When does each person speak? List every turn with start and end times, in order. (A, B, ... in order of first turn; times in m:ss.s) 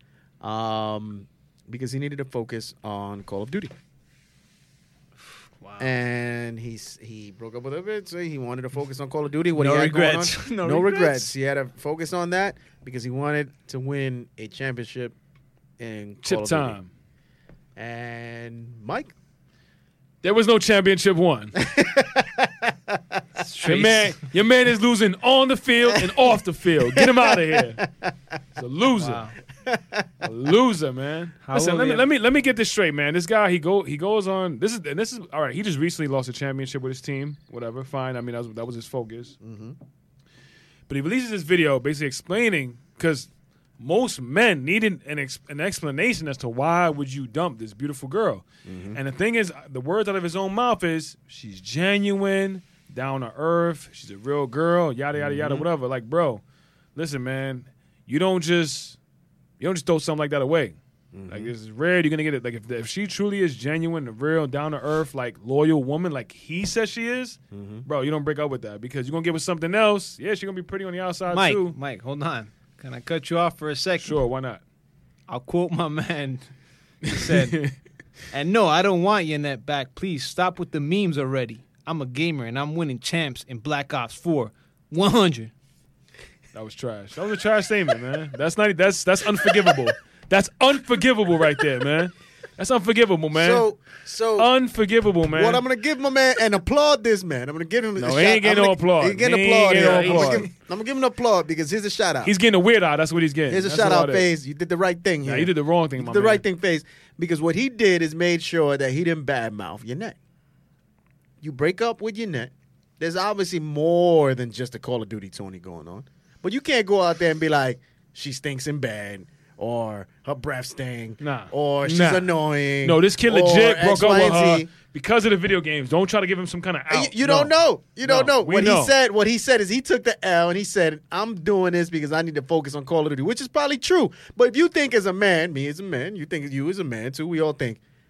0:00.4-0:03.7 A
0:05.6-0:05.9 B
0:05.8-0:15.2 A
0:09.6-0:11.3 B
0:15.8-0:16.8 A
0:16.2-0:16.9 C
0:17.8-0:19.1 A
0:20.2-0:21.6 C
0:21.6-0:23.2 A
0:23.4-0:24.3 B
0:23.6-0:27.8 C
0:26.9-0:28.1 A
0:28.6-0:29.3 C
0:29.0-0:29.4 B
0:29.7-0:30.1 A
0:30.2-0:39.4 C
0:31.4-0:32.0 B
0:39.4-0:39.8 A
0:40.9-0:56.4 C
0:48.6-0:49.0 A
0:55.2-0:55.7 A
0:57.0-0:59.0 C
0:59.6-1:00.8 C
1:01.1-1:01.5 A
1:01.3-1:11.8 C
1:07.5-1:07.9 A
1:11.3-1:14.2 B
1:14.0-1:14.6 C
1:15.3-1:16.4 B
1:17.0-1:17.7 B
1:17.1-1:17.7 C
1:18.3-1:25.5 B
1:26.5-1:33.7 C
1:33.3-1:34.5 A
1:34.4-1:35.6 C
1:35.3-1:42.3 A
1:38.0-1:40.5 C
1:39.7-1:40.5 B
1:42.2-1:44.3 C
1:43.5-1:50.2 A
1:45.2-1:46.4 C
1:51.4-2:04.7 A
2:01.2-2:08.9 C
2:06.9-2:17.8 A